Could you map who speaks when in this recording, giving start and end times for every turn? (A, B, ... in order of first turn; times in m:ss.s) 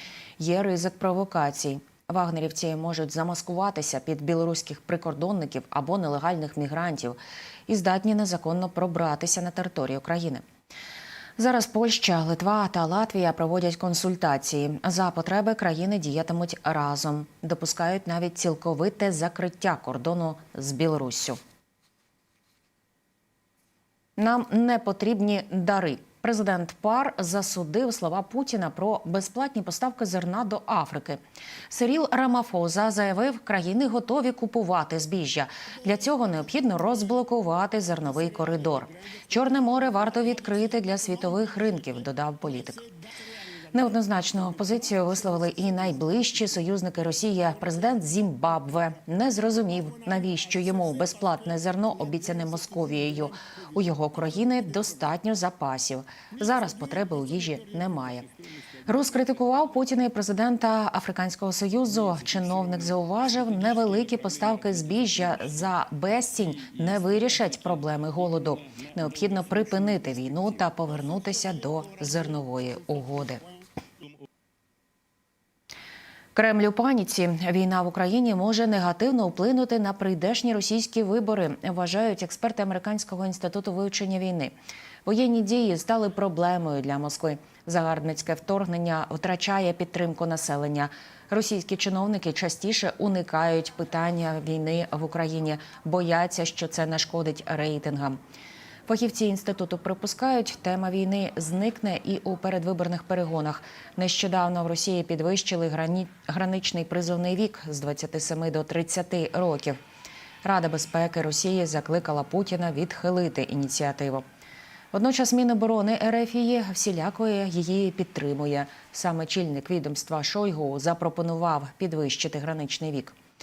0:00.4-0:10.4 A
0:11.4-0:21.4 A
0:24.2-0:31.2 A
0:31.7-0:42.8 A
0:43.7-0:58.3 A
0:58.9-1:13.4 A
1:16.3-1:24.5 A
1:25.0-1:38.2 A
1:38.9-1:49.8 A
1:50.4-1:54.2 A
1:54.9-2:03.2 A